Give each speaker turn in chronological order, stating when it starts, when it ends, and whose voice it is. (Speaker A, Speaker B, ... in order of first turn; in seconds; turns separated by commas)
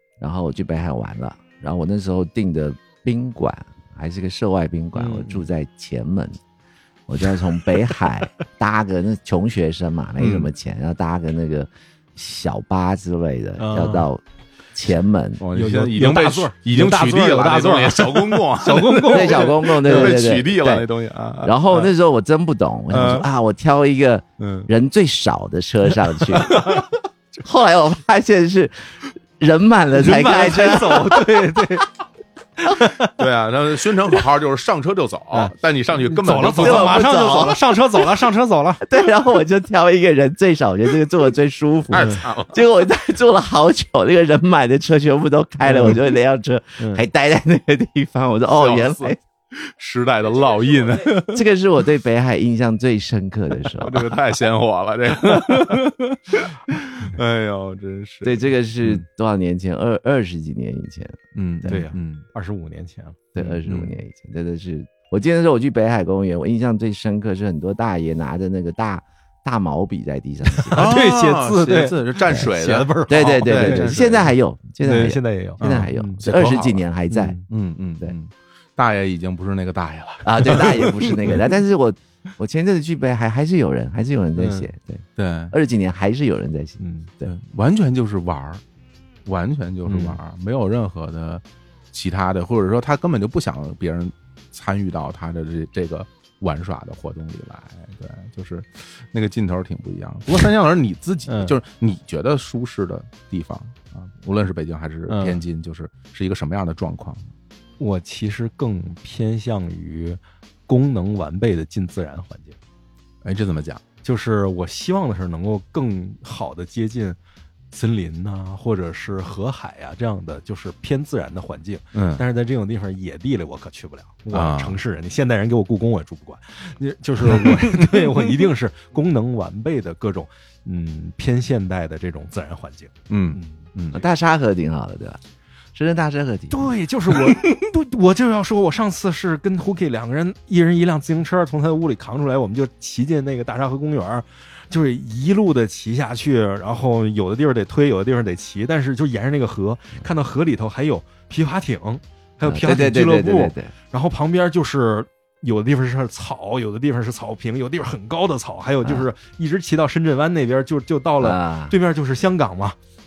Speaker A: 0.2-6.4, Speaker B: 4.9-5.5, Speaker A: 7.1-14.2, Speaker C: 10.2-10.5, Speaker B: 13.6-14.1, Speaker A: 14.7-15.4, Speaker C: 15.4-21.9, Speaker B: 15.5-20.2, Speaker A: 19.1-20.9, Speaker A: 21.4-26.8, Speaker C: 22.9-23.2, Speaker B: 22.9-23.2, Speaker C: 24.4-24.7, Speaker C: 26.3-26.9, Speaker A: 27.4-31.3, Speaker B: 29.9-31.9, Speaker B: 32.6-33.2, Speaker C: 33.1-37.5, Speaker B: 35.3-38.9, Speaker A: 36.5-37.6, Speaker A: 38.8-49.2, Speaker C: 41.9-42.6, Speaker B: 45.6-46.0, Speaker B: 46.8-47.0, Speaker C: 48.5-51.4, Speaker A: 51.3-54.1, Speaker C: 53.8-59.0, Speaker A: 58.2-61.8, Speaker C: 61.3-62.2, Speaker B: 61.7-63.3, Speaker A: 63.3-70.9, Speaker C: 63.4-63.9, Speaker B: 70.5-74.3, Speaker C: 70.7-74.3, Speaker A: 73.1-77.4, Speaker B: 74.8-76.2, Speaker C: 75.6-76.8, Speaker B: 77.1-77.4, Speaker C: 77.5-81.5, Speaker A: 80.2-87.3, Speaker B: 84.3-84.7, Speaker C: 85.2-85.5, Speaker B: 86.8-87.1, Speaker C: 87.2-88.6, Speaker C: 89.2-107.3, Speaker B: 89.8-90.2, Speaker B: 101.3-101.6, Speaker B: 105.1-105.4, Speaker B: 107.8-112.6, Speaker C: 113.2-113.8, Speaker B: 114.0-117.2, Speaker B: 117.7-133.7, Speaker C: 121.9-122.2, Speaker C: 124.3-124.8, Speaker C: 127.3-128.1, Speaker C: 133.1-134.0, Speaker A: 133.9-135.2, Speaker A: 135.7-136.6, Speaker B: 136.5-162.8, Speaker A: 152.4-153.7, Speaker A: 161.2-161.7